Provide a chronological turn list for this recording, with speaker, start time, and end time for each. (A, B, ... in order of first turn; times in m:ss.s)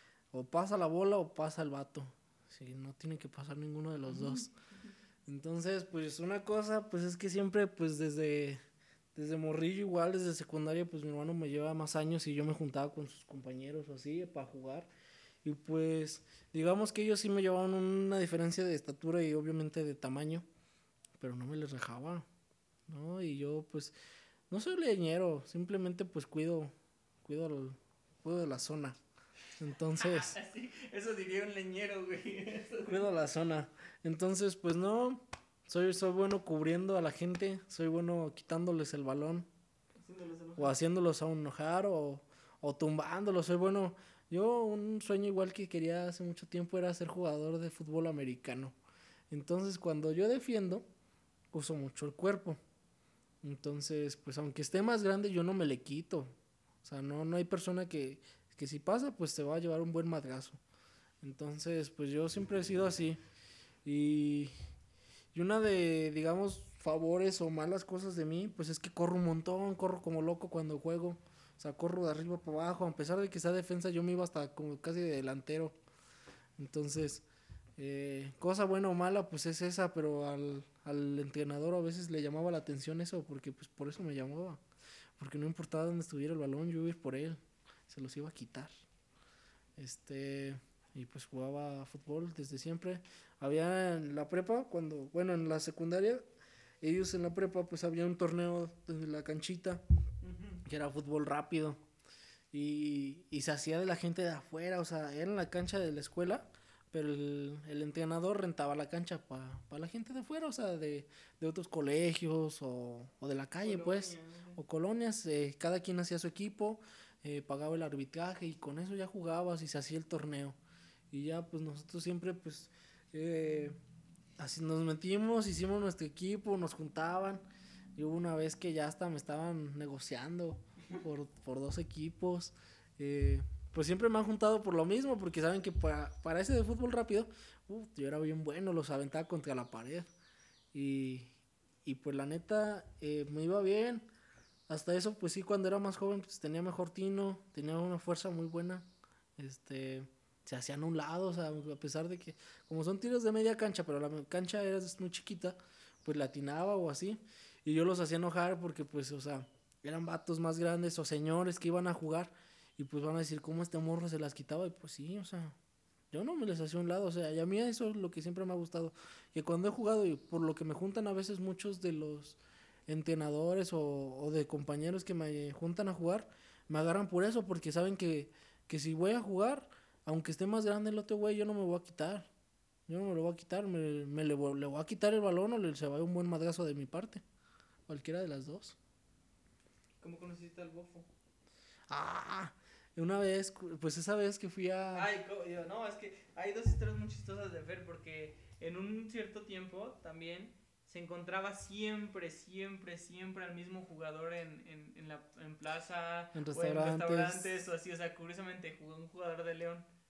0:00.3-0:04.5 A
0:04.1-0:04.4 B
0:05.3-0:08.6 A
0:09.2-0:14.9 A
0:15.4-0:20.4 A
0:21.2-0:22.3 A
0:22.9-0:24.0 A
0:24.5-0:26.7 A
0:27.2-0:29.0 A
0:29.6-0:30.4 A
0:30.0-0:33.0 B
0:32.9-0:39.5 A
0:40.0-0:40.8 B
0:40.6-0:48.8 A
0:49.3-0:50.9 A
0:51.5-0:52.6 A
0:53.4-0:56.3 A
0:56.8-1:00.6 A
1:01.2-1:03.2 A
1:03.8-1:04.5 A
1:05.3-1:15.8 A
1:16.6-1:17.2 A
1:17.8-1:24.6 A
1:25.2-1:28.7 A
1:29.8-1:36.3 A
1:36.8-1:39.8 A
1:40.2-1:40.6 B
1:40.6-1:41.8 A
1:42.5-2:00.6 A
1:53.6-1:54.6 B
2:01.1-2:03.8 A
2:04.4-2:20.1 A
2:20.7-2:21.3 A
2:21.8-2:24.1 A
2:24.7-2:45.6 A
2:46.1-3:02.3 A
3:02.9-3:07.2 A
3:07.9-3:08.8 A
3:10.0-3:11.1 B
3:11.9-3:15.1 A
3:14.9-3:29.9 B
3:26.4-3:27.6 A